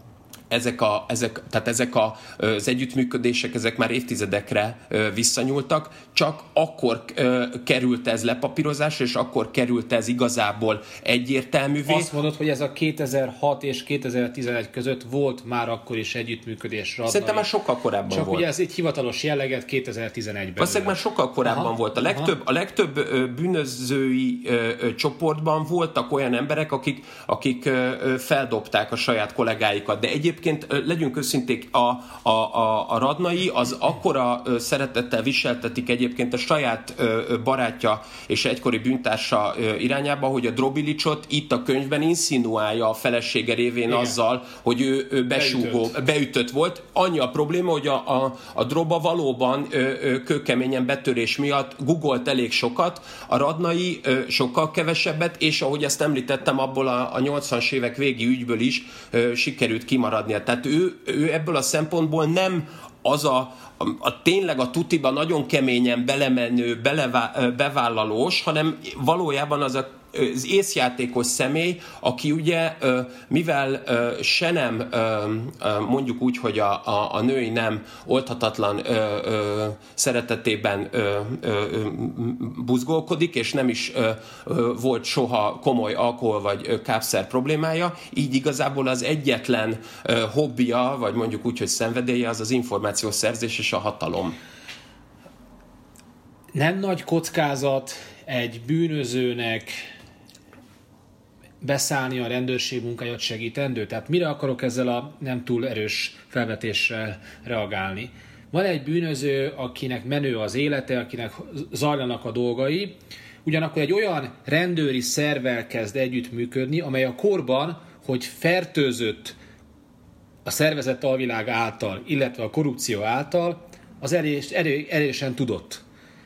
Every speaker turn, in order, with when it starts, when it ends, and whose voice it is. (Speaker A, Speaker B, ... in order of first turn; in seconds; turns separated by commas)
Speaker A: 0.5-12.1, Speaker B: 11.9-17.5, Speaker A: 17.1-18.5, Speaker B: 18.1-20.9, Speaker A: 20.6-94.4, Speaker B: 21.5-22.3, Speaker B: 96.5-99.8, Speaker B: 101.6-119.4, Speaker B: 120.5-125.8